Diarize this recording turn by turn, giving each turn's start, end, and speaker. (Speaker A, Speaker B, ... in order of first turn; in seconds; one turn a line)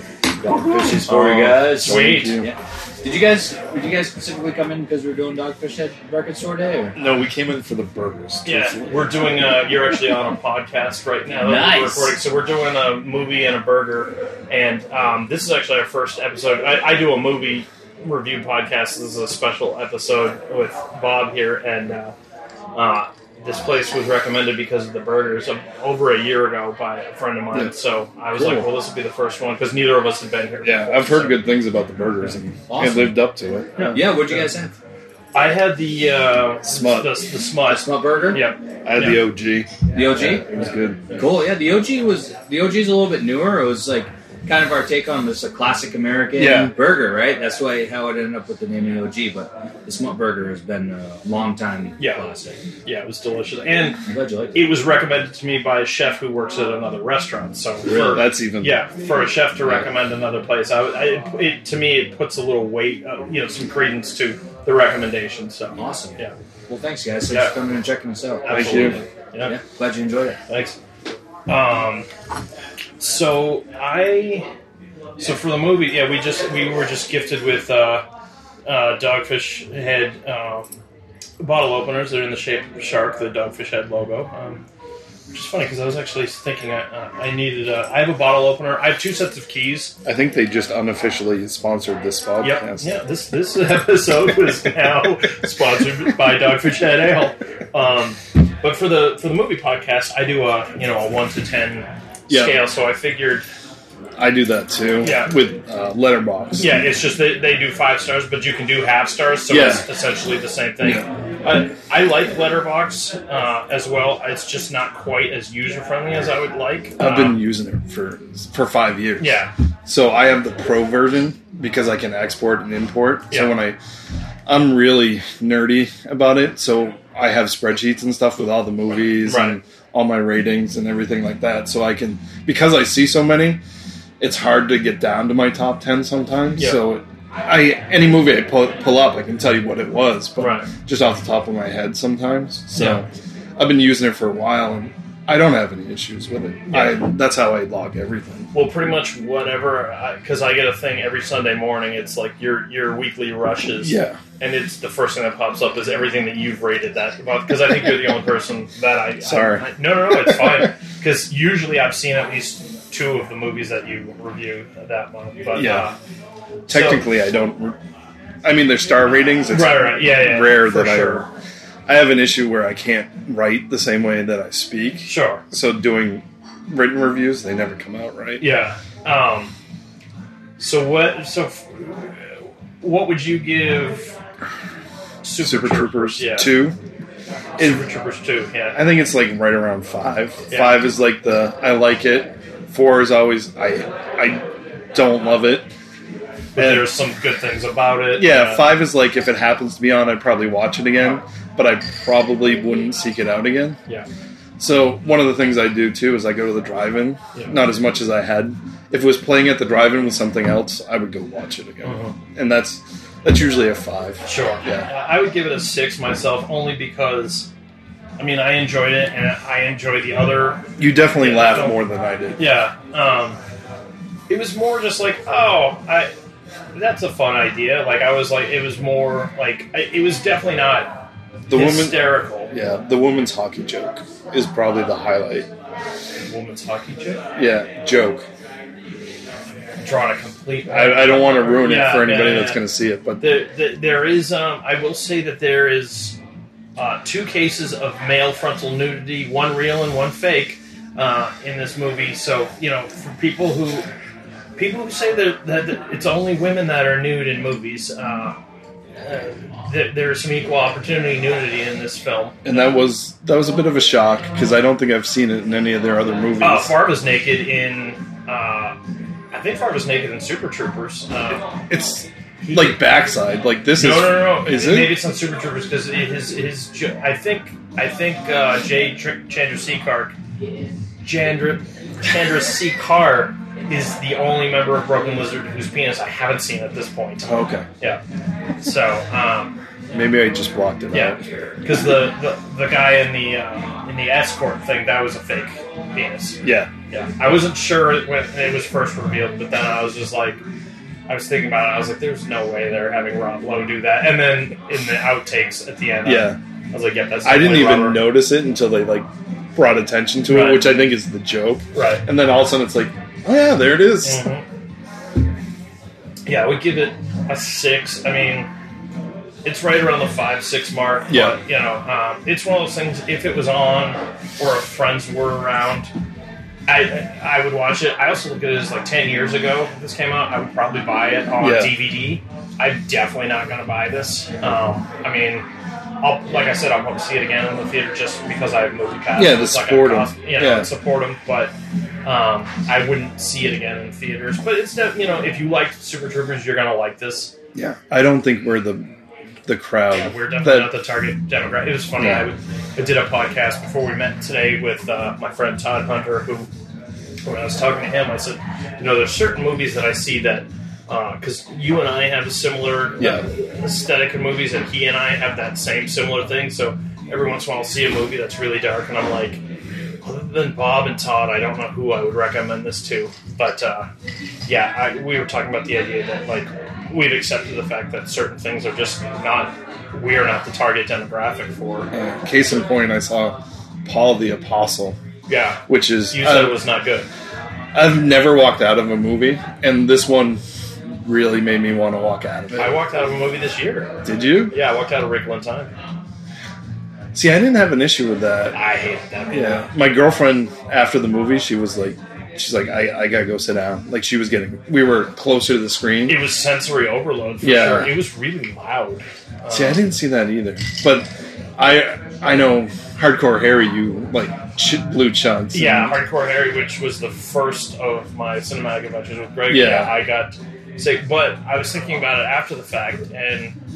Speaker A: 0.4-6.9
Speaker B: 0.7-2.5
Speaker C: 1.6-2.4
Speaker B: 7.0-9.1
Speaker C: 8.4-22.1
Speaker A: 11.4-12.2
Speaker C: 22.7-31.4
Speaker B: 28.4-28.6
Speaker B: 30.6-34.1
Speaker A: 32.7-33.2
Speaker A: 33.9-34.7
Speaker C: 35.3-39.2
Speaker B: 36.6-37.2
Speaker A: 37.6-38.5
Speaker B: 38.8-41.3
Speaker A: 39.9-40.5
Speaker A: 41.1-52.6
Speaker B: 46.4-46.7
Speaker C: 52.0-52.2
Speaker C: 52.8-54.0
Speaker A: 54.0-54.6
Speaker C: 54.5-66.3
Speaker A: 57.9-58.2
Speaker B: 58.0-58.8
Speaker A: 65.8-70.4
Speaker C: 67.3-67.5
Speaker C: 68.4-69.6
Speaker B: 68.5-69.0
Speaker C: 70.5-70.8
Speaker C: 71.5-72.1
Speaker C: 73.0-74.5
Speaker C: 75.2-78.0
Speaker C: 78.7-80.7
Speaker C: 81.4-84.6
Speaker C: 85.3-90.0
Speaker B: 90.0-93.0
Speaker C: 92.4-103.5
Speaker B: 102.3-102.6
Speaker B: 104.2-106.7
Speaker C: 105.0-105.3
Speaker C: 106.6-117.4
Speaker B: 109.5-109.8
Speaker B: 110.8-111.1
Speaker B: 117.0-123.8
Speaker C: 119.2-119.5
Speaker B: 124.5-133.6
Speaker C: 129.2-129.6
Speaker B: 134.2-148.5
Speaker C: 136.6-136.8
Speaker C: 140.4-140.7
Speaker C: 142.8-143.0
Speaker C: 146.7-147.0
Speaker C: 148.5-165.9
Speaker B: 153.8-154.2
Speaker B: 159.2-160.7
Speaker B: 165.5-165.9
Speaker C: 166.7-167.0
Speaker B: 166.7-167.8
Speaker B: 168.4-171.3
Speaker C: 169.5-171.2
Speaker B: 171.9-178.5
Speaker C: 175.0-175.4
Speaker C: 178.4-179.5
Speaker C: 180.6-184.2
Speaker C: 185.2-186.6
Speaker B: 185.4-186.8
Speaker B: 187.6-187.8
Speaker C: 187.6-188.8
Speaker B: 188.7-195.7
Speaker C: 190.5-190.8
Speaker C: 196.5-198.7
Speaker B: 196.6-196.9
Speaker B: 198.1-203.8
Speaker B: 204.6-214.9
Speaker C: 211.8-212.2
Speaker C: 214.2-217.5
Speaker C: 218.2-221.8
Speaker B: 220.8-222.4
Speaker C: 222.4-223.4
Speaker C: 224.3-226.1
Speaker C: 226.7-232.5
Speaker B: 231.5-235.5
Speaker C: 236.3-237.2
Speaker B: 237.3-238.2
Speaker C: 239.8-242.6
Speaker B: 240.7-243.2
Speaker C: 243.2-246.2
Speaker C: 246.8-253.9
Speaker C: 254.6-258.4
Speaker C: 259.0-262.6
Speaker B: 262.4-266.8
Speaker C: 266.4-268.8
Speaker C: 269.3-271.4
Speaker B: 271.5-275.0
Speaker C: 272.4-272.8
Speaker C: 273.8-280.1
Speaker C: 281.0-288.0
Speaker B: 287.2-287.6
Speaker C: 288.6-289.6
Speaker B: 289.9-291.2
Speaker C: 290.9-300.4
Speaker B: 296.4-296.7
Speaker C: 301.1-308.2
Speaker B: 306.0-306.4
Speaker B: 307.2-314.2
Speaker C: 310.3-310.8
Speaker C: 311.7-312.0
Speaker C: 314.0-314.4
Speaker C: 316.3-318.5
Speaker C: 319.4-325.9
Speaker B: 321.1-321.4
Speaker C: 326.7-335.5
Speaker B: 331.4-331.7
Speaker C: 336.0-341.5
Speaker B: 339.1-340.7
Speaker C: 342.0-347.3
Speaker B: 347.5-348.9
Speaker B: 349.4-350.7
Speaker C: 349.9-356.5
Speaker B: 351.9-352.3
Speaker C: 357.2-369.4
Speaker B: 363.0-363.2
Speaker C: 370.0-373.9
Speaker C: 374.4-381.9
Speaker B: 381.9-385.0
Speaker C: 385.3-387.1
Speaker B: 385.7-386.6
Speaker B: 387.7-392.8
Speaker C: 392.5-394.0
Speaker B: 394.0-394.5
Speaker C: 394.5-395.7
Speaker B: 397.1-398.6
Speaker C: 398.5-399.7
Speaker B: 399.3-406.2
Speaker C: 406.1-409.8
Speaker B: 407.4-408.0
Speaker B: 409.5-416.0
Speaker C: 415.5-423.6
Speaker B: 419.5-419.9